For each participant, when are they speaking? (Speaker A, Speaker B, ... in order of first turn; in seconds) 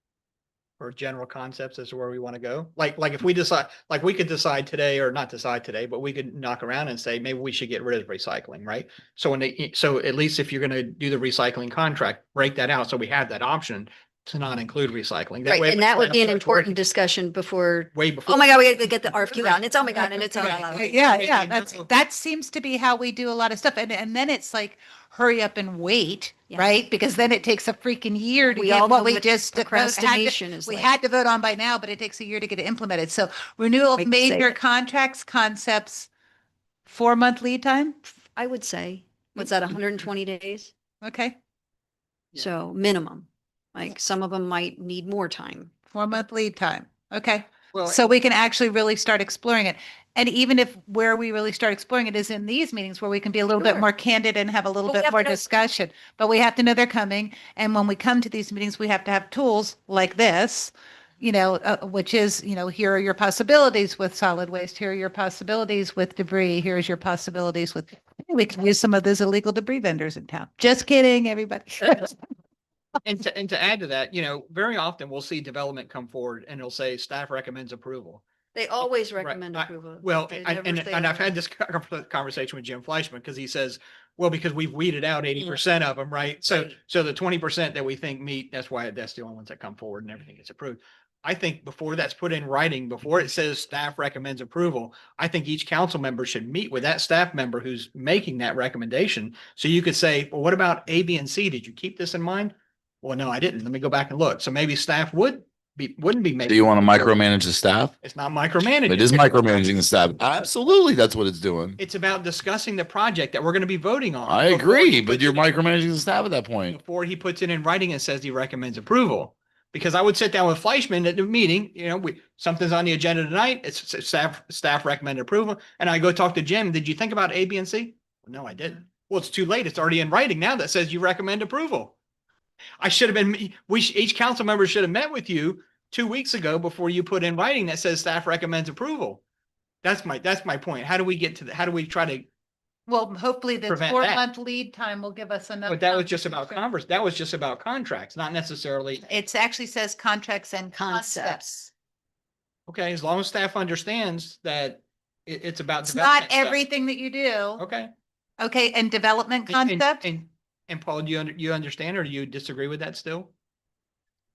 Speaker A: 0.8-16.8, 17.9-21.9, 47.7-48.0, 73.0-78.2, 79.2-106.6, 108.0-109.4, 111.8-115.6, 116.7-132.0, 132.8-139.2, 139.8-142.3, 143.7-144.2, 145.7-149.0, 152.7-156.6, 157.6-157.9, 159.5-163.3
Speaker B: 15.4-21.1, 26.5-26.8, 28.4-30.9, 34.0-34.6, 38.3-40.7, 42.4-45.7, 53.6-53.9, 54.9-55.2, 78.5-81.3, 150.7-151.4
Speaker C: 20.7-36.1, 36.9-38.0, 41.0-41.4, 45.9-72.2, 142.9-146.6, 149.1-151.7, 155.8-157.6, 158.4-160.1
Speaker D: 106.5-107.9, 108.9-111.8, 114.3-116.8